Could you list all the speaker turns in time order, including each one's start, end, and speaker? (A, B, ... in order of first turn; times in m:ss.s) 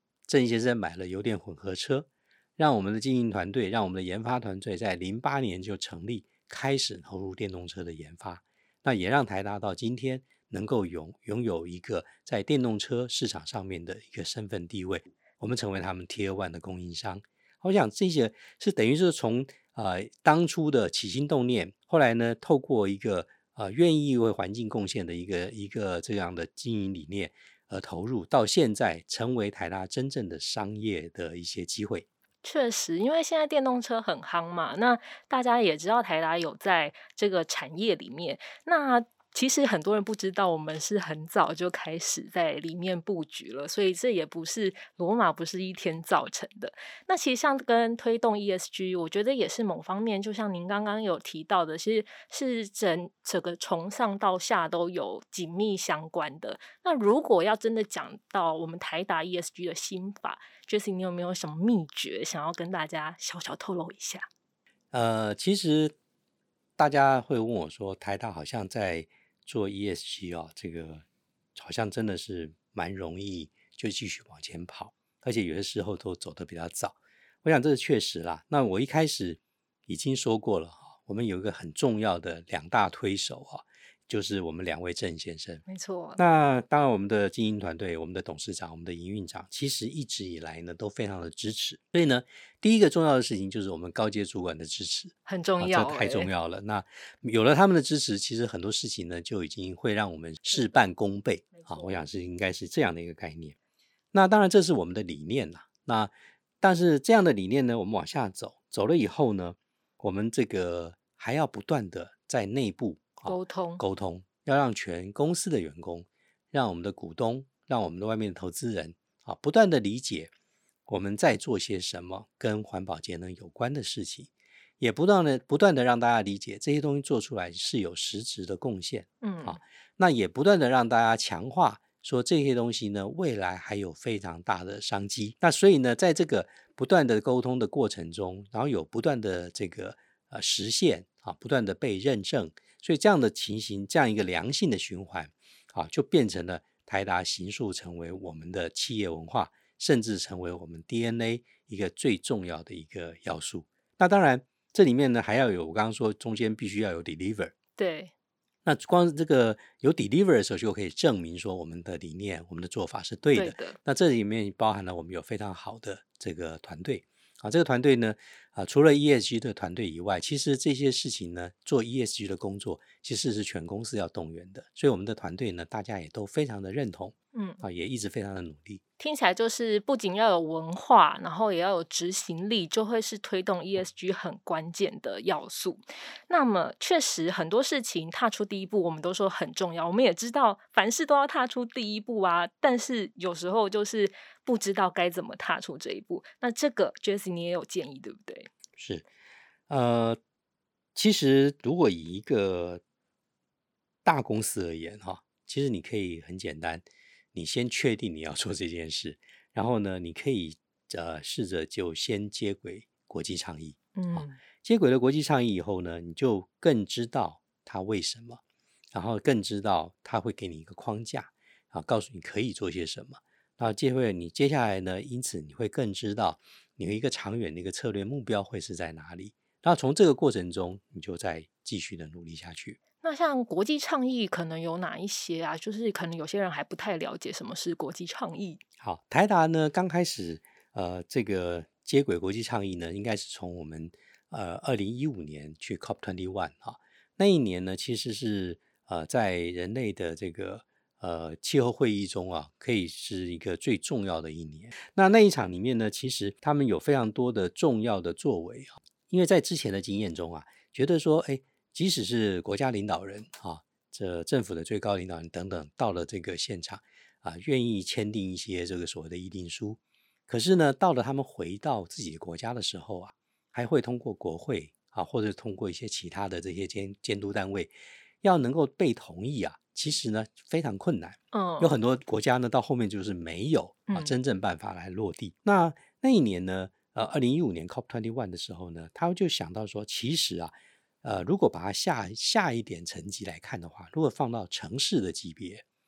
0:00.3-0:32.1 A
0:32.4-1:04.3 B
1:04.9-1:06.0 A
1:06.8-1:25.6 A
1:25.7-1:26.2 B
1:26.2-1:43.6 A
1:35.3-1:36.3 B
1:41.6-1:41.9 B
1:44.1-2:00.3 A
1:53.3-1:53.8 B
2:00.9-2:37.5 A
2:09.2-2:09.6 B
2:37.8-2:38.1 B
2:38.6-2:58.8 A
2:43.4-2:43.8 B
2:57.3-2:57.6 B
2:59.0-3:18.5 B
3:18.8-3:19.1 A
3:19.7-3:20.2 A
3:21.0-3:22.8 A
3:24.0-3:38.4 A
3:34.0-3:34.4 B
3:38.9-3:52.8 A
3:53.0-3:58.6 B
3:58.8-4:55.6 A
4:41.3-4:41.8 B
4:43.9-4:44.1 B